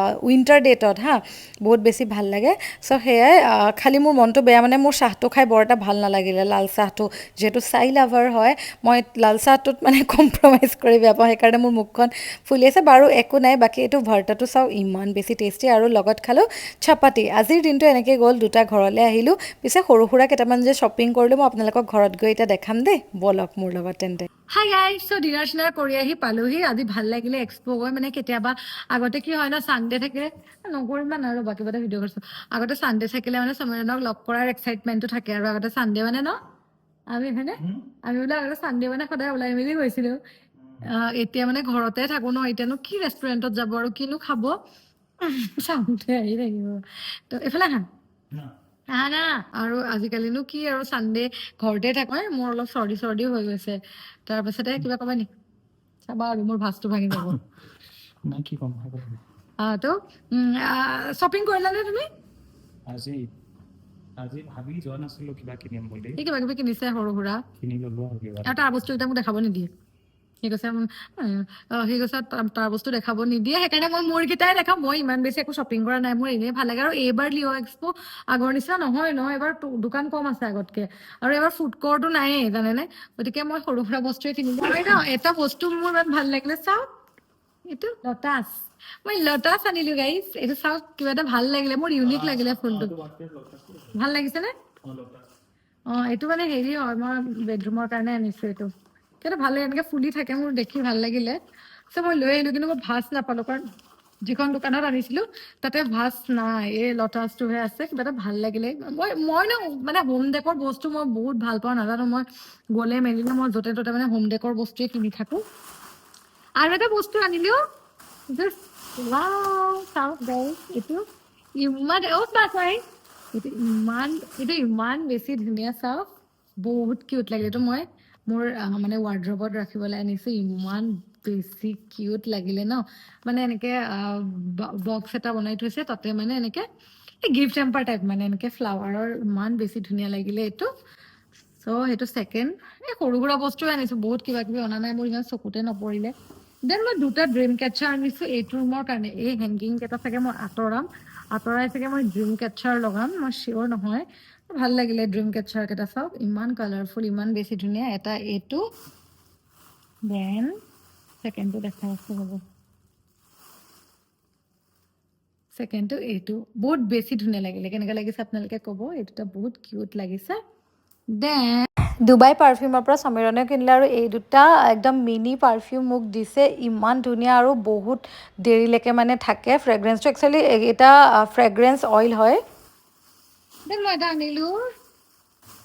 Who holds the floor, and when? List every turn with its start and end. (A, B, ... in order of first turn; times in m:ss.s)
0:00.2-0:24.3 A
0:24.5-0:36.4 B
0:37.1-0:40.2 B
0:37.6-0:37.8 C
0:40.6-0:40.8 C
0:40.8-0:44.5 B
0:45.2-0:47.9 B
0:48.9-0:55.3 B
0:56.1-0:57.4 B
0:57.1-0:57.4 C
0:58.3-0:59.2 C
0:59.6-1:02.1 B
1:02.9-1:03.2 C
1:04.2-1:06.2 C
1:06.2-1:07.4 B
1:07.6-1:08.6 C
1:08.4-1:09.7 B
1:10.4-1:26.9 B
1:27.6-1:32.9 B
1:32.0-1:34.0 C
1:33.9-1:34.5 B
1:34.8-1:35.3 C
1:35.9-1:41.4 B
1:41.9-1:43.6 B
1:44.2-1:55.4 B
1:56.6-1:57.6 B
1:58.3-2:01.0 B
2:01.6-2:02.8 B
2:03.3-2:06.1 B
2:06.6-2:16.6 B
2:17.2-2:20.7 B
2:21.6-2:26.1 B
2:26.7-2:38.6 B
2:40.1-2:40.5 B
2:41.2-2:42.4 B
2:45.5-2:50.4 B
2:51.1-2:51.7 B
2:52.1-2:53.8 A
2:54.0-2:54.2 B
2:55.3-2:56.4 B
2:56.4-2:56.8 A
2:58.5-3:02.4 A
3:03.7-3:04.6 B